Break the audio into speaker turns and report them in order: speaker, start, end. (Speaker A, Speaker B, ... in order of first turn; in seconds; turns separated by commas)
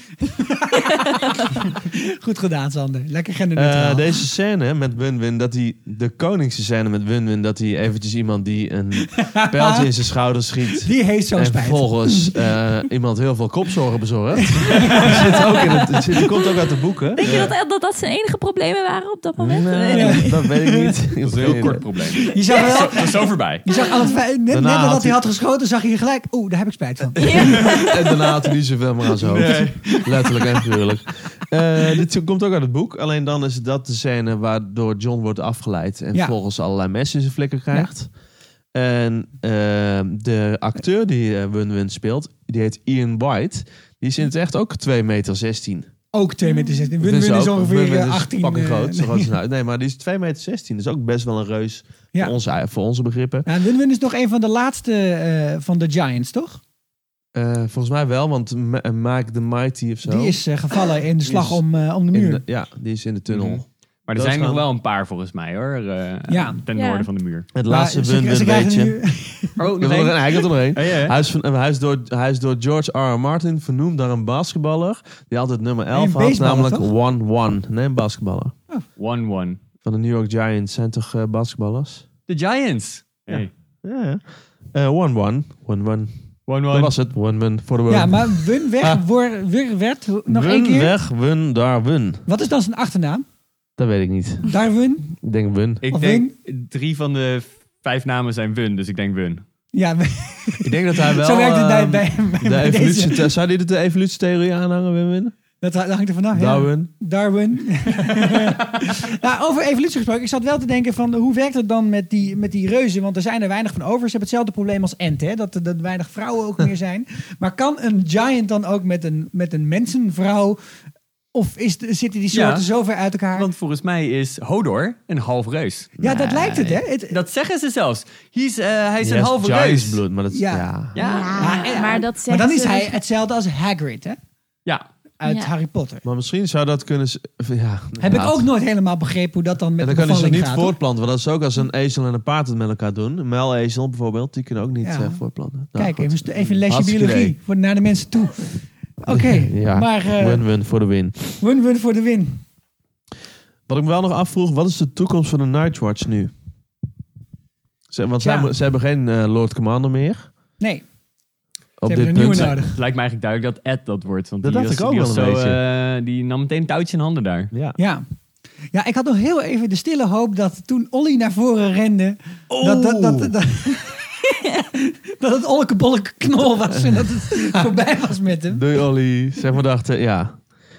Speaker A: 0.3-4.1, Speaker B: 3.5-17.5, Speaker A: 9.2-9.9, Speaker A: 10.8-12.3, Speaker A: 14.6-15.2, Speaker C: 17.2-20.4, Speaker B: 19.4-21.9, Speaker A: 19.9-20.9, Speaker D: 21.2-23.7, Speaker A: 22.2-27.4, Speaker C: 23.7-24.1, Speaker B: 24.5-25.2, Speaker B: 27.2-38.1, Speaker C: 27.2-28.1, Speaker D: 27.4-27.7, Speaker D: 29.2-30.0, Speaker A: 29.5-30.1, Speaker B: 38.7-45.9, Speaker A: 46.1-49.3, Speaker C: 46.4-46.9, Speaker B: 47.0-53.5, Speaker A: 53.5-56.6, Speaker B: 57.4-60.4, Speaker A: 60.0-62.4, Speaker B: 61.2-64.6, Speaker D: 63.3-67.5, Speaker A: 66.3-66.6, Speaker C: 66.8-67.1, Speaker B: 67.5-69.0, Speaker A: 67.7-69.6, Speaker D: 69.6-71.2, Speaker B: 69.8-78.5, Speaker A: 75.9-76.9, Speaker D: 79.0-79.6, Speaker B: 79.8-82.0, Speaker D: 82.3-83.5, Speaker B: 83.3-86.1, Speaker D: 86.5-87.0, Speaker B: 86.7-89.0, Speaker A: 87.9-90.9, Speaker B: 90.3-92.2, Speaker A: 92.3-93.2, Speaker B: 93.8-94.5, Speaker A: 94.5-95.1, Speaker B: 95.1-95.8, Speaker D: 95.8-99.4, Speaker A: 95.9-96.3, Speaker A: 99.7-103.2, Speaker B: 100.6-105.3, Speaker A: 105.6-120.6, Speaker B: 106.3-106.9, Speaker A: 121.3-123.5, Speaker D: 122.3-122.7, Speaker D: 123.3-130.0, Speaker B: 126.0-126.4, Speaker A: 126.0-127.2, Speaker B: 129.0-131.0, Speaker A: 130.3-130.7, Speaker D: 130.9-131.6, Speaker C: 131.0-133.0, Speaker A: 131.4-134.2, Speaker A: 135.2-136.0, Speaker C: 135.2-135.5, Speaker B: 136.0-138.5, Speaker A: 138.0-140.8, Speaker B: 139.8-147.4, Speaker A: 144.8-145.2, Speaker A: 145.7-150.5, Speaker B: 149.1-151.4, Speaker A: 151.4-152.4, Speaker B: 153.7-156.3, Speaker B: 157.9-160.3, Speaker A: 158.2-158.5, Speaker A: 160.6-160.9, Speaker B: 161.8-162.6, Speaker A: 161.9-162.8, Speaker D: 162.2-167.5, Speaker B: 164.4-165.6, Speaker B: 167.5-167.8, Speaker A: 167.8-168.0, Speaker A: 168.7-178.6, Speaker B: 172.5-173.3, Speaker B: 176.7-177.7, Speaker B: 178.5-180.4